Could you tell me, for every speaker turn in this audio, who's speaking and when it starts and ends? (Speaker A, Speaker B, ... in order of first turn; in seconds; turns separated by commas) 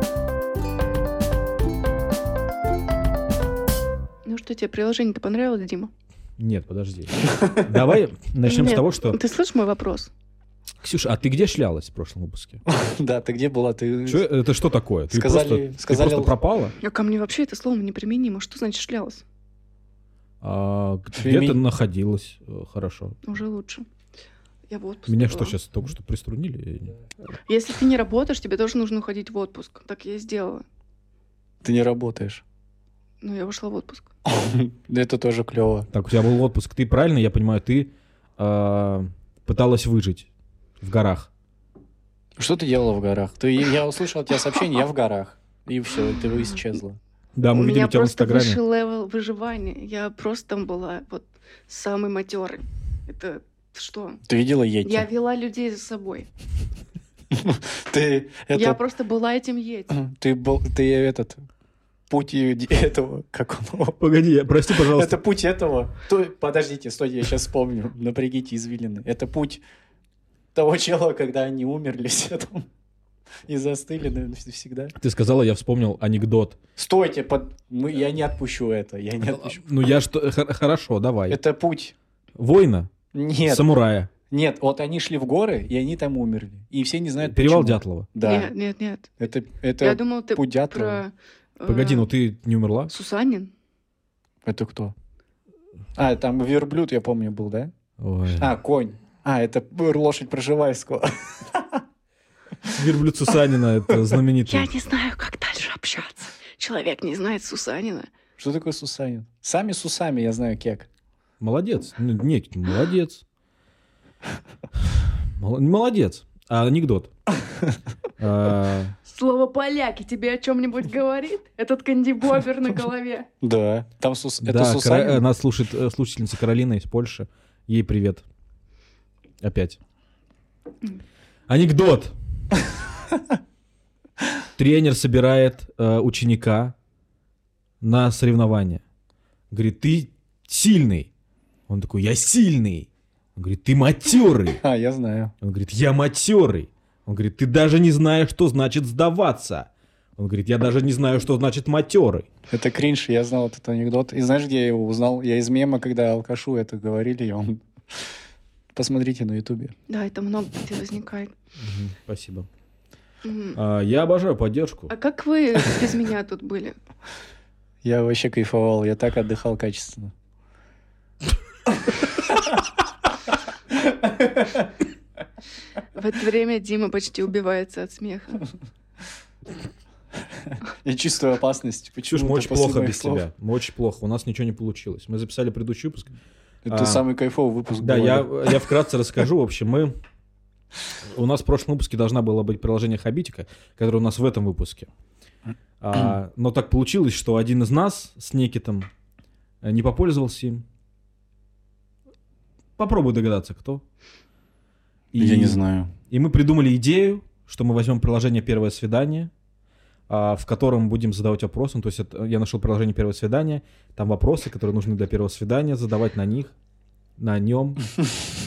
Speaker A: 4.3-5.9, Speaker B: 6.4-9.2, Speaker C: 7.2-7.8, Speaker A: 8.5-10.1, Speaker B: 10.8-12.6, Speaker C: 12.7-14.2, Speaker B: 14.1-16.7, Speaker C: 15.1-16.4, Speaker A: 16.8-19.2, Speaker B: 20.4-23.1, Speaker C: 21.1-21.6, Speaker A: 23.2-23.9, Speaker A: 24.7-25.6, Speaker B: 25.1-26.9, Speaker A: 27.5-30.6, Speaker C: 31.6-32.4, Speaker A: 33.2-34.1, Speaker C: 34.2-35.9, Speaker B: 35.9-40.3, Speaker B: 40.8-41.3, Speaker C: 42.4-47.0, Speaker B: 47.4-48.6, Speaker A: 47.5-54.2, Speaker C: 54.2-55.1, Speaker A: 54.8-56.3, Speaker C: 57.3-58.8, Speaker A: 58.5-60.0, Speaker C: 59.9-61.5, Speaker C: 62.1-64.0, Speaker B: 64.0-65.2, Speaker C: 64.7-69.6, Speaker C: 70.5-72.7, Speaker C: 73.5-74.9, Speaker B: 75.0-76.6, Speaker C: 76.8-79.6, Speaker B: 79.3-81.4, Speaker C: 81.3-81.9, Speaker B: 82.4-82.9, Speaker C: 83.1-83.7, Speaker B: 83.5-84.1, Speaker C: 84.3-88.5, Speaker B: 87.2-88.1, Speaker A: 88.2-89.1, Speaker C: 89.2-91.0, Speaker A: 89.8-92.1, Speaker B: 91.7-92.9, Speaker A: 92.9-93.5, Speaker C: 94.4-94.9, Speaker C: 96.0-97.7, Speaker B: 98.0-98.5, Speaker C: 98.3-101.8, Speaker B: 102.7-104.7, Speaker A: 104.5-108.1, Speaker C: 108.4-110.9, Speaker B: 111.4-113.2, Speaker B: 114.9-117.1, Speaker B: 118.2-119.0, Speaker A: 119.1-123.3, Speaker C: 123.4-125.2, Speaker B: 124.4-128.2, Speaker B: 129.4-129.8, Speaker B: 131.5-132.2, Speaker B: 134.6-136.8, Speaker B: 137.8-138.8, Speaker B: 139.5-141.1, Speaker B: 141.7-144.6, Speaker C: 144.6-145.3, Speaker B: 145.4-152.3, Speaker C: 152.5-158.1, Speaker C: 158.8-159.8, Speaker A: 159.9-161.3, Speaker B: 161.6-162.5, Speaker A: 163.2-163.6, Speaker B: 163.5-164.9, Speaker A: 164.9-166.8, Speaker C: 167.8-170.1, Speaker C: 173.7-174.7, Speaker A: 175.9-178.4, Speaker C: 180.3-183.2, Speaker B: 182.1-186.1, Speaker C: 186.7-188.6, Speaker B: 186.7-187.0, Speaker B: 187.8-189.9, Speaker B: 191.1-194.9, Speaker B: 195.8-198.9, Speaker B: 199.6-200.6, Speaker B: 202.8-203.8, Speaker B: 205.1-209.3, Speaker C: 205.2-205.9, Speaker B: 210.1-216.5, Speaker B: 217.2-217.8